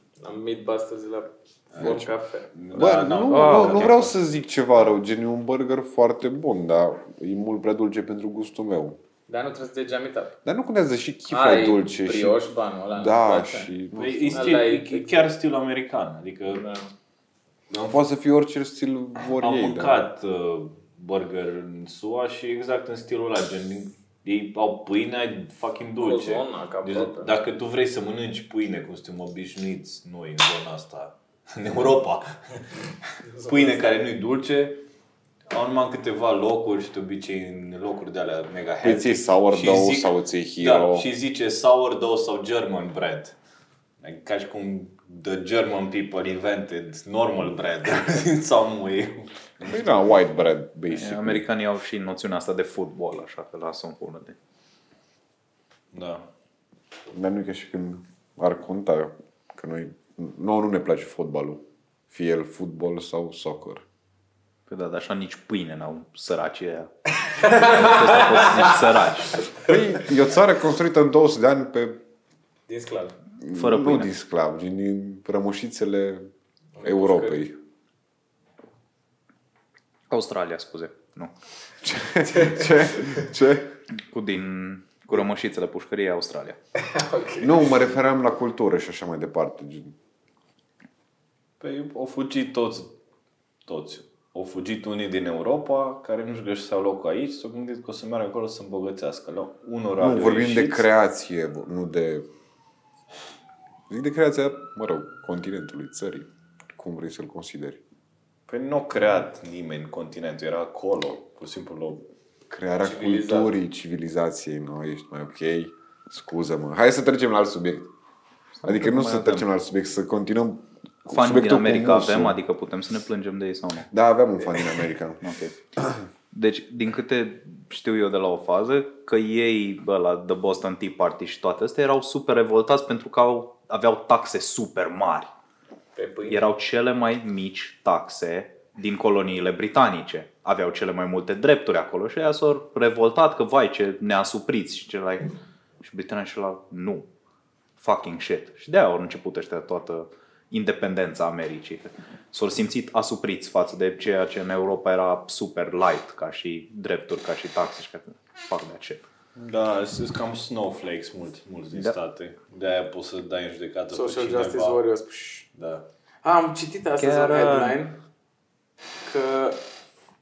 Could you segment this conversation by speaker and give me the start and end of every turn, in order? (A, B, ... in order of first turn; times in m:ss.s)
0:00.2-0:02.5 A
0:01.7-0:04.1 B
0:02.7-0:09.0 C
0:03.3-0:04.0 D
0:09.3-0:10.4 A
0:10.4-0:12.4 C
0:11.3-0:13.7 A
0:12.9-0:14.6 C
0:14.0-0:16.6 B
0:14.3-0:15.3 A
0:16.5-0:16.9 A
0:17.7-0:18.0 B
0:17.9-0:20.0 C
0:19.3-0:32.6 B
0:26.0-0:27.3 A
0:33.2-0:33.8 A
0:33.4-0:34.8 B
0:35.5-0:43.4 B
0:38.8-0:41.1 C
0:44.0-0:50.0 B
0:49.6-0:51.4 C
0:50.9-0:54.4 D
0:55.9-0:56.3 B
0:57.1-1:03.8 C
1:04.7-1:09.4 D
1:07.4-1:08.9 A
1:09.6-1:12.0 C
1:12.7-1:13.1 A
1:13.4-1:16.3 C
1:13.5-1:14.1 D
1:16.8-1:17.4 A
1:16.8-1:17.6 C
1:20.1-1:21.3 D
1:21.8-1:23.7 C
1:24.0-1:26.6 D
1:26.8-1:27.7 A
1:27.4-1:29.9 C
1:31.6-1:33.0 B
1:33.6-1:40.9 B
1:40.0-1:42.3 C
1:43.9-1:47.8 C
1:48.5-1:52.1 B
1:52.5-1:57.9 C
1:52.8-1:53.5 A
1:58.6-1:59.4 D
1:58.6-2:02.4 C
2:01.1-2:03.9 D
2:03.9-2:05.2 C
2:05.2-2:05.6 D
2:06.3-2:15.3 D
2:16.0-2:16.4 A
2:16.3-2:27.0 D
2:27.8-2:39.0 D
2:39.4-2:44.8 B
2:43.9-2:45.4 A
2:45.5-2:45.8 B
2:46.2-2:48.0 A
2:47.0-2:47.8 D
2:49.0-2:49.6 A